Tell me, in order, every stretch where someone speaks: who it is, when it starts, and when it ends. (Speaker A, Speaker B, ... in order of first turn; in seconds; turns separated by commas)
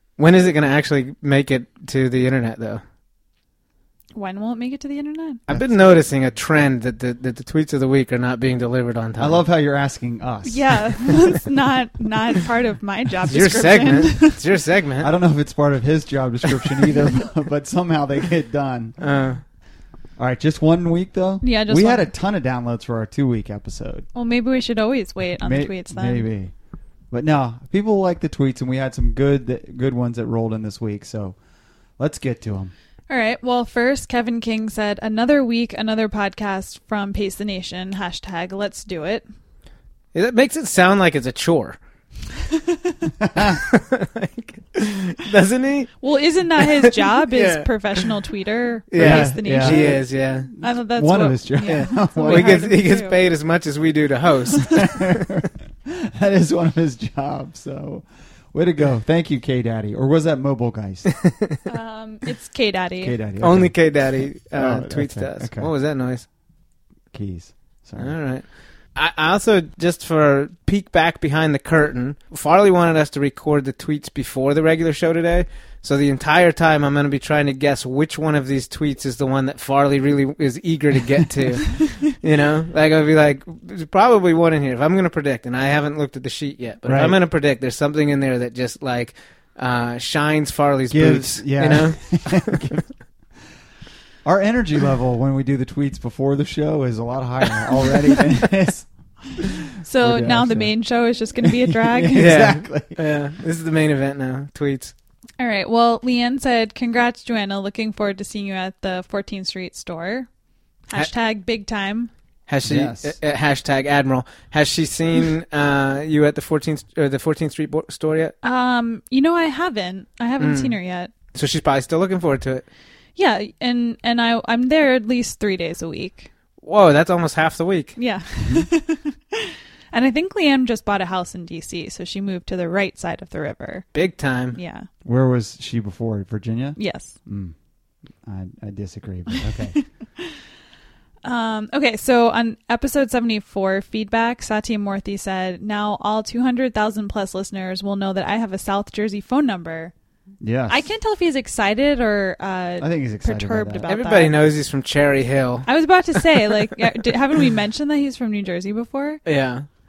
Speaker A: 0.2-2.8, Speaker B: 4.2-5.4, Speaker A: 5.5-9.4, Speaker C: 5.5-6.0, Speaker C: 9.2-11.2, Speaker B: 10.4-14.4, Speaker A: 13.3-15.1, Speaker C: 15.0-19.0, Speaker A: 19.0-19.4, Speaker C: 20.2-24.1, Speaker B: 21.4-22.1, Speaker B: 24.1-26.3, Speaker C: 25.4-26.5, Speaker C: 27.1-31.4, Speaker C: 32.0-32.7, Speaker B: 33.1-39.2, Speaker A: 40.1-41.8, Speaker B: 42.5-43.0, Speaker C: 43.2-43.6, Speaker A: 43.5-46.0, Speaker B: 46.0-50.1, Speaker A: 46.6-48.1, Speaker A: 48.9-50.5, Speaker C: 49.0-52.6, Speaker B: 50.6-53.2, Speaker A: 51.6-55.3, Speaker C: 54.6-61.1, Speaker A: 61.1-61.6, Speaker B: 61.7-63.2, Speaker C: 63.0-63.9, Speaker A: 63.4-66.2, Speaker C: 64.5-65.7, Speaker C: 67.1-68.2, Speaker A: 68.0-92.7, Speaker C: 86.9-87.2, Speaker C: 90.9-92.9, Speaker C: 94.2-100.7, Speaker B: 99.8-102.4, Speaker C: 101.4-103.0, Speaker A: 102.2-104.9, Speaker B: 105.4-110.3, Speaker B: 110.9-112.1, Speaker A: 112.5-118.3, Speaker C: 112.6-113.2, Speaker B: 118.4-121.1, Speaker A: 120.4-120.8, Speaker A: 121.3-122.7, Speaker B: 123.2-126.3, Speaker A: 126.6-128.0, Speaker B: 128.0-133.9, Speaker C: 128.4-128.7, Speaker A: 133.9-134.6, Speaker B: 134.5-134.9, Speaker C: 135.0-137.5, Speaker B: 136.8-137.2, Speaker C: 138.2-139.8, Speaker B: 139.7-140.4, Speaker B: 141.2-149.9, Speaker C: 150.4-150.9, Speaker B: 150.7-154.4, Speaker C: 152.8-153.8, Speaker A: 153.9-156.6, Speaker B: 155.7-159.2, Speaker A: 159.2-159.7